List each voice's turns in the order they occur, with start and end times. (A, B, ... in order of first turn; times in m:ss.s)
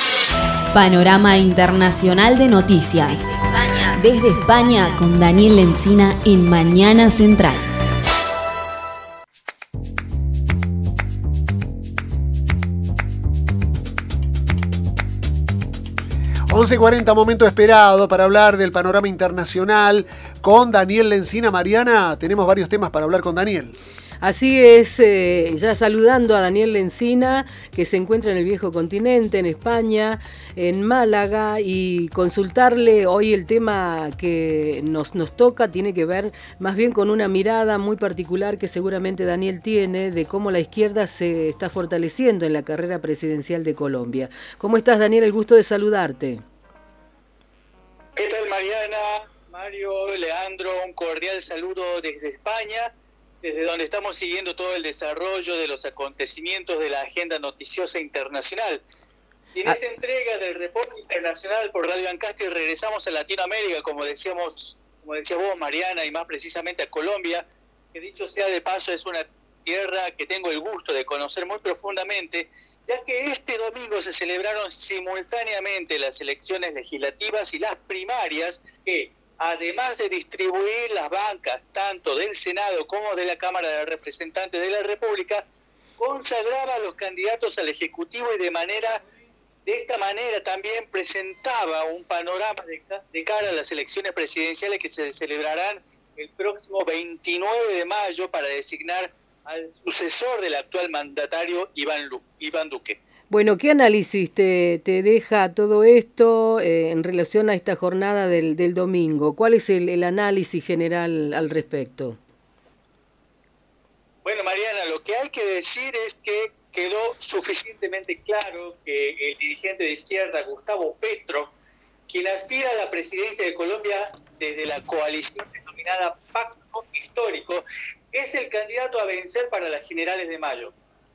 0:00.7-0:07.6 A
0:16.5-0:23.7 B
0:24.2-0:46.4 C
0:48.2-0:58.8 D
0:59.6-1:25.4 D
1:26.0-1:29.0 D
1:29.7-1:43.0 D
1:43.3-1:52.2 C
1:54.2-2:01.5 D
2:02.1-2:10.7 D